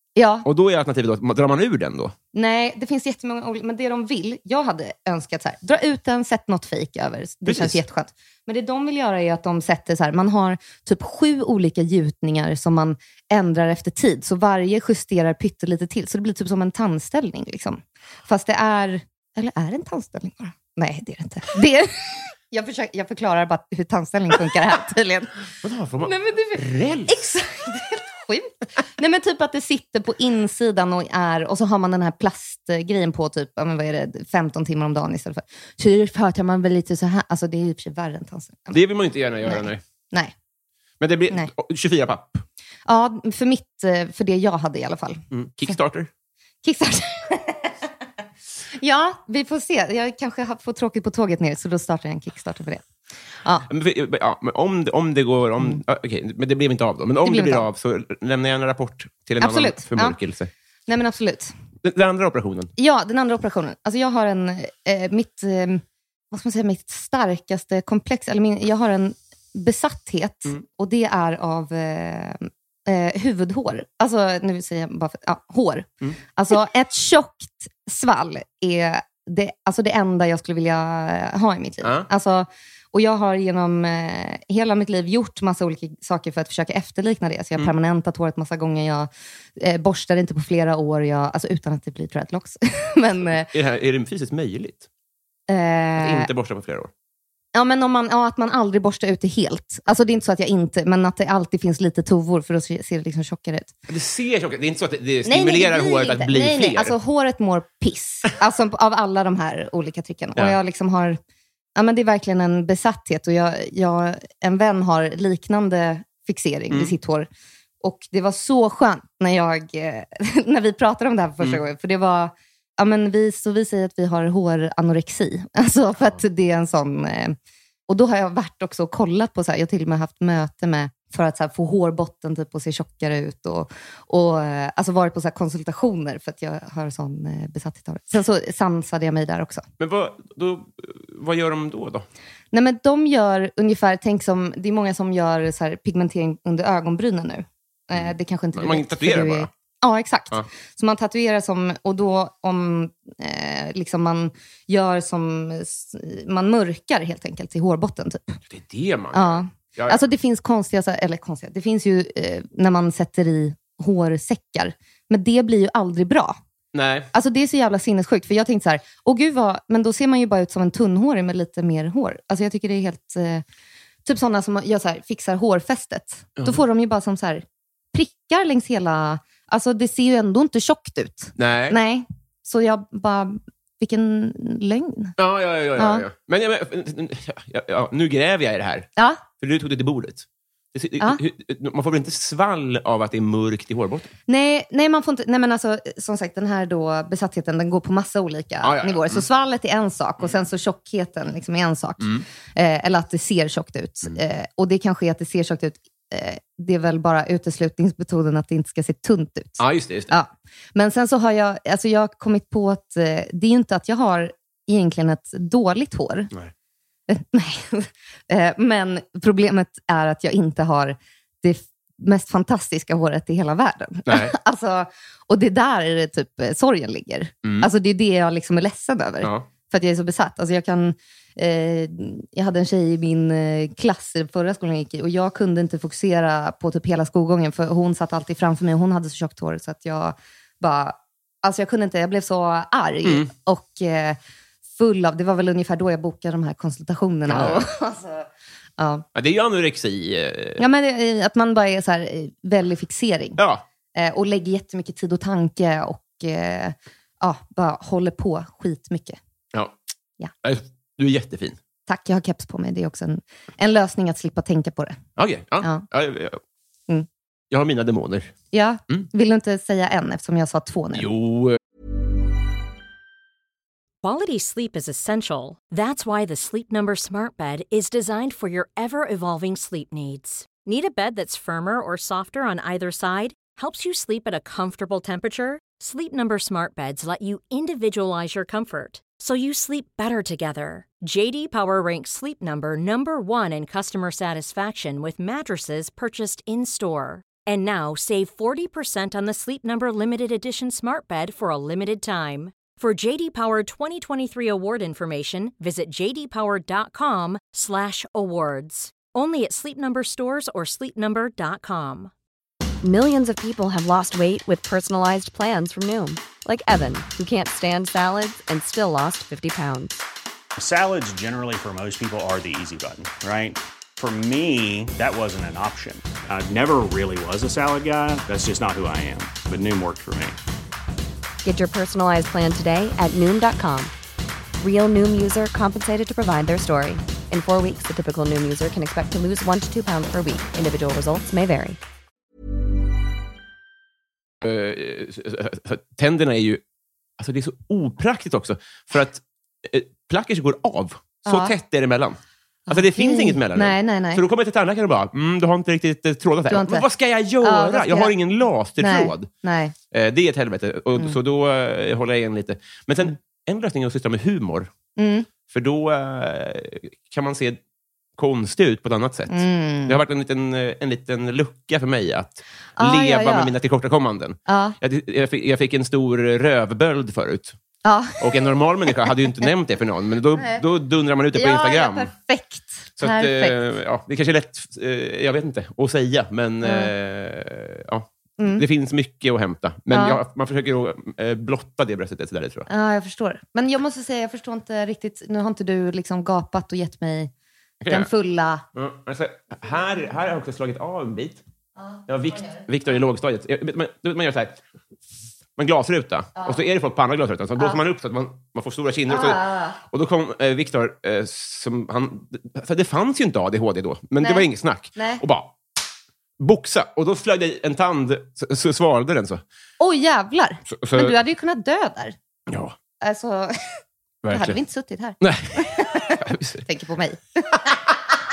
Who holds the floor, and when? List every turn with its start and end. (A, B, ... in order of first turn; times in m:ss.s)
0:00.2-0:00.4 A
0:00.4-0:02.1 B
0:02.3-0:25.4 A
0:07.4-0:07.8 B
0:25.6-0:27.2 B
0:26.0-0:38.8 A
0:38.7-0:39.8 B
0:39.4-0:40.3 A
0:41.0-0:42.4 B
0:42.8-0:45.7 A
0:45.3-0:46.1 B
0:46.6-0:47.7 A
0:48.8-0:52.8 A
0:53.7-1:00.5 B
0:57.2-0:57.6 A
0:59.4-1:00.2 A
1:00.9-1:01.5 A
1:01.8-1:02.7 B
1:02.8-1:33.5 A
1:33.5-1:34.8 B
1:35.5-1:36.3 A
1:36.0-1:36.9 B
1:37.5-1:43.7 A
1:43.9-1:46.9 B
1:45.2-1:51.2 A
1:51.8-1:57.3 A
1:57.8-2:07.4 A
2:07.9-2:19.6 A
2:19.8-2:22.0 B
2:22.5-2:38.4 A
2:27.9-2:29.5 B
2:38.5-2:40.0 B
2:39.1-2:46.4 A
2:46.7-2:47.1 B
2:47.1-2:53.4 A
2:54.0-3:05.1 A
3:01.4-3:01.8 B
3:05.2-3:14.1 B
3:05.8-3:06.0 A
3:09.0-3:09.2 A
3:14.3-3:36.3 A
3:18.6-3:19.2 B
3:29.6-3:30.1 B
3:37.1-4:04.2 A
3:44.1-3:44.3 B
3:47.4-3:47.7 B
3:49.2-3:49.5 B
4:04.8-4:09.0 A
4:07.3-4:07.6 B
4:09.1-4:10.6 B
4:10.6-4:13.4 A
4:13.4-4:13.6 B
4:13.9-4:19.2 A
4:20.4-4:21.6 B
4:21.9-4:25.0 A
4:25.2-4:26.4 B
4:27.5-4:28.3 B
4:28.5-4:31.1 A
4:31.0-4:31.6 B
4:34.0-5:12.1 C
5:12.8-5:20.0 D
5:20.6-5:30.4 E
5:31.4-5:33.9 D
5:34.6-5:41.8 D
5:44.4-5:46.6 B
5:47.2-5:59.3 B
5:51.2-5:51.5 A
5:52.7-5:54.2 A
5:56.5-5:56.8 A
5:57.4-5:58.1 A
5:58.8-5:59.7 A
5:59.9-6:04.7 B
6:05.0-6:05.3 A
6:05.5-6:07.6 B
6:08.2-6:17.6 B
6:09.3-6:10.0 A
6:12.8-6:13.5 A
6:14.5-6:14.8 A
6:17.8-6:18.3 A
6:18.2-6:22.1 B
6:20.4-6:20.6 A
6:21.3-6:23.5 A
6:23.0-6:32.7 B
6:26.6-6:26.9 A
6:28.4-6:28.6 A
6:29.9-6:30.2 A
6:32.7-6:37.3 A
6:37.8-6:38.1 B
6:37.9-6:38.6 A
6:38.7-6:41.4 B
6:41.8-6:42.7 A
6:42.1-6:44.6 B
6:45.6-6:55.5 B
6:49.1-6:49.8 A
6:54.2-6:55.2 A
6:56.4-6:59.4 B
6:59.8-7:02.2 A
7:00.7-7:01.2 B
7:02.5-7:02.7 B
7:03.0-7:03.8 A
7:04.2-7:04.6 B
7:04.3-7:07.7 A
7:05.2-7:06.6 B